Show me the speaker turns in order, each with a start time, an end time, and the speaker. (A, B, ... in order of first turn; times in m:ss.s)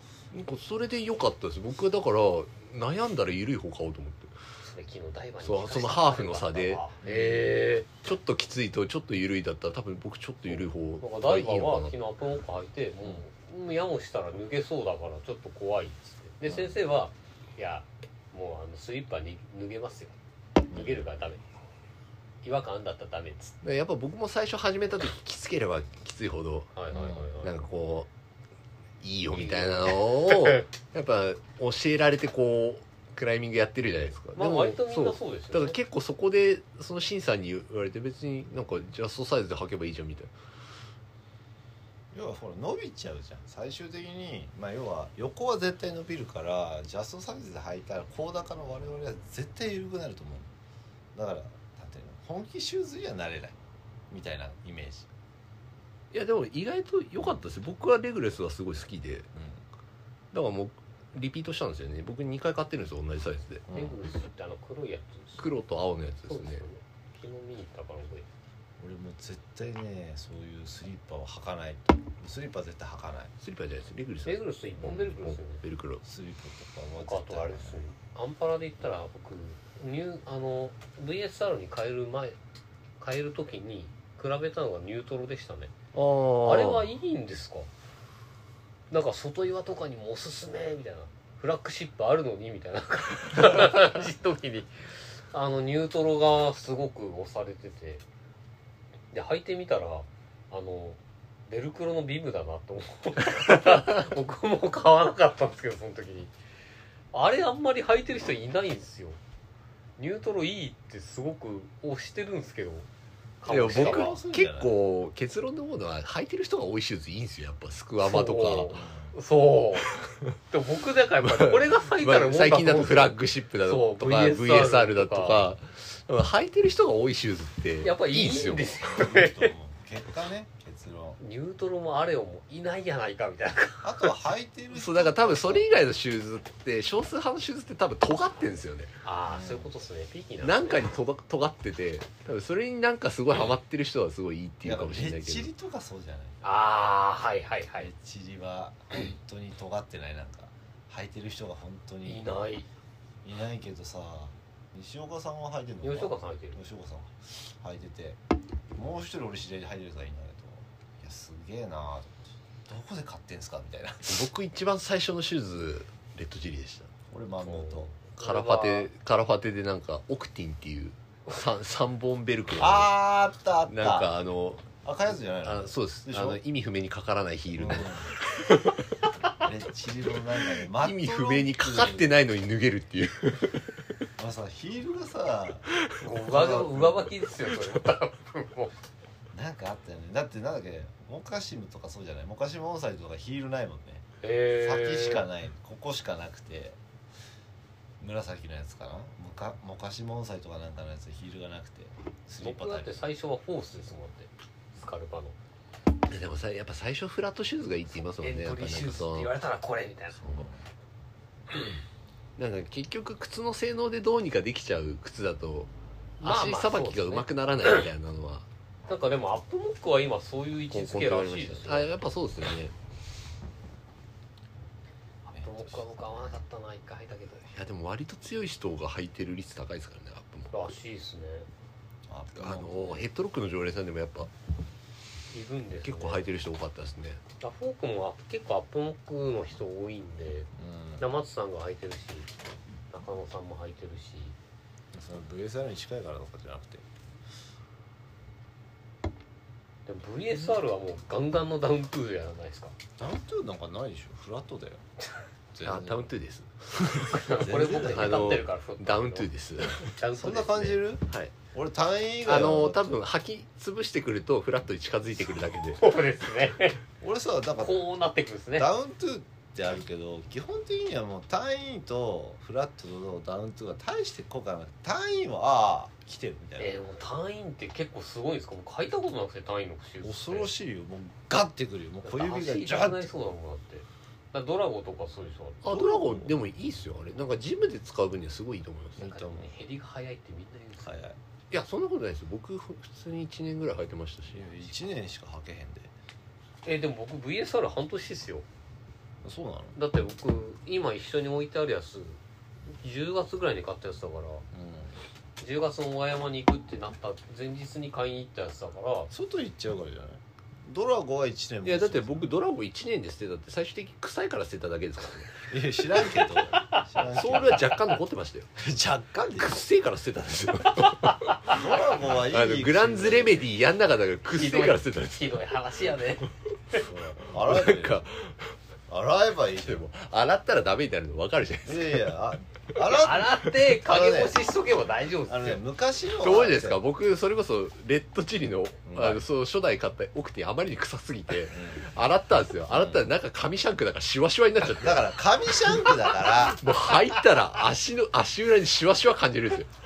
0:00.3-0:04.3 A
0:04.6-0:07.9 B
0:05.4-0:06.8 A
0:07.0-0:07.5 C
0:07.9-0:11.9 A
0:10.4-0:20.2 B
0:16.5-0:16.8 C
0:20.7-0:21.0 C
0:20.7-0:21.4 B
0:22.4-0:23.6 B
0:23.6-0:26.7 A
0:26.7-0:27.7 B
0:26.9-0:27.3 C
0:27.4-0:28.1 A
0:29.0-0:40.3 A
0:29.3-0:30.6 B
0:34.4-0:35.8 B
0:42.1-0:50.5 C
0:51.1-0:53.6 C
0:54.1-0:55.1 C
0:56.1-0:59.3 A
0:59.3-0:59.6 C
1:00.3-1:03.6 A
1:03.7-1:04.0 C
1:03.7-1:05.5 B
1:05.4-1:06.6 A
1:06.3-1:08.3 B
1:08.8-1:13.3 C
1:13.4-1:16.0 A
1:14.2-1:15.6 B
1:16.0-1:17.8 C
1:17.0-1:22.4 B
1:23.0-1:25.7 B
1:25.9-1:26.8 A
1:26.4-1:27.7 B
1:28.9-1:38.0 B
1:39.1-1:46.3 B
1:47.1-1:49.2 B
1:50.0-1:52.9 B
1:53.4-1:54.2 B
1:53.5-1:58.7 A
1:53.5-1:54.7 C
1:58.0-1:59.9 B
1:58.7-1:59.1 C
2:00.5-2:05.5 B
2:01.2-2:08.8 A
2:07.8-2:09.5 B
2:08.8-2:11.2 C
2:11.2-2:14.1 B
2:13.8-2:15.6 C
2:14.7-2:18.9 A
2:19.0-2:20.9 B
2:19.2-2:19.7 C
2:20.4-2:25.5 A
2:24.6-2:26.4 C
2:26.4-2:27.9 B
2:27.8-2:32.4 C
2:32.0-2:32.7 B
2:33.2-2:38.2 C
2:35.8-2:36.6 B
2:38.7-2:44.3 C
2:44.1-2:46.9 A
2:47.1-2:47.9 C
2:47.4-2:48.9 B
2:48.2-2:52.9 A
2:52.6-2:54.1 C
2:53.7-2:54.7 A
2:54.8-2:56.4 C
2:55.4-2:58.8 A
2:57.5-2:58.2 C
2:59.4-3:02.2 C
3:00.8-3:03.7 A
3:04.2-3:07.1 C
3:06.0-3:08.8 B
3:09.3-3:16.8 C
3:14.2-3:15.2 B
3:18.0-3:23.0 C
3:22.4-3:25.4 B
3:26.1-3:29.3 A
3:28.2-3:30.2 B
3:30.2-3:30.6 C
3:32.4-3:35.7 A
3:36.2-3:37.8 B
3:36.2-3:38.4 A
3:38.9-3:41.9 B
3:40.7-3:42.7 A
3:45.2-3:47.5 B
3:45.3-3:45.8 C
3:47.5-3:50.6 A
3:50.5-3:51.5 B
3:52.1-3:53.1 C
3:52.4-3:54.3 A
3:55.3-3:56.2 B
3:55.8-3:57.2 A
3:57.4-4:02.3 B
4:00.6-4:01.0 C
4:02.9-4:04.4 B
4:04.9-4:06.8 C
4:09.9-4:12.8 B
4:13.0-4:14.8 C
4:15.5-4:16.1 C
4:15.6-4:19.9 A
4:17.1-4:20.8 B
4:17.2-4:18.4 C
4:20.1-4:23.0 C
4:22.2-4:25.8 A
4:25.8-4:26.8 B
4:27.0-4:27.8 C
4:27.6-4:28.7 B
4:28.6-4:36.8 C
4:36.6-4:40.5 B
4:40.0-4:43.1 C
4:42.0-4:45.6 B
4:45.6-4:49.2 A
4:45.7-4:46.4 C
4:49.0-4:51.0 B
4:49.1-4:49.5 C
4:50.8-4:51.2 C
4:51.5-4:54.4 A
4:54.3-4:55.9 C
4:56.6-4:58.4 B
4:59.2-4:59.8 C
4:59.8-5:02.2 B
5:02.8-5:04.4 B
5:04.5-5:05.0 C
5:05.4-5:09.1 B
5:09.1-5:12.3 C
5:11.6-5:15.4 A
5:15.5-5:17.8 C
5:17.1-5:18.5 A
5:18.6-5:19.6 C
5:19.4-5:21.5 A
5:21.0-5:21.6 B
5:21.5-5:23.5 C
5:22.2-5:25.4 A
5:24.3-5:26.3 B
5:26.7-5:28.1 C
5:27.3-5:28.5 A
5:28.9-5:29.8 C
5:29.6-5:32.1 A
5:31.6-5:34.4 C
5:32.8-5:35.6 B
5:35.2-5:36.8 C
5:36.2-5:45.0 A
5:38.9-5:39.2 C
5:41.5-5:41.9 C
5:42.7-5:43.1 C
5:44.6-5:46.6 C
5:46.6-5:49.7 A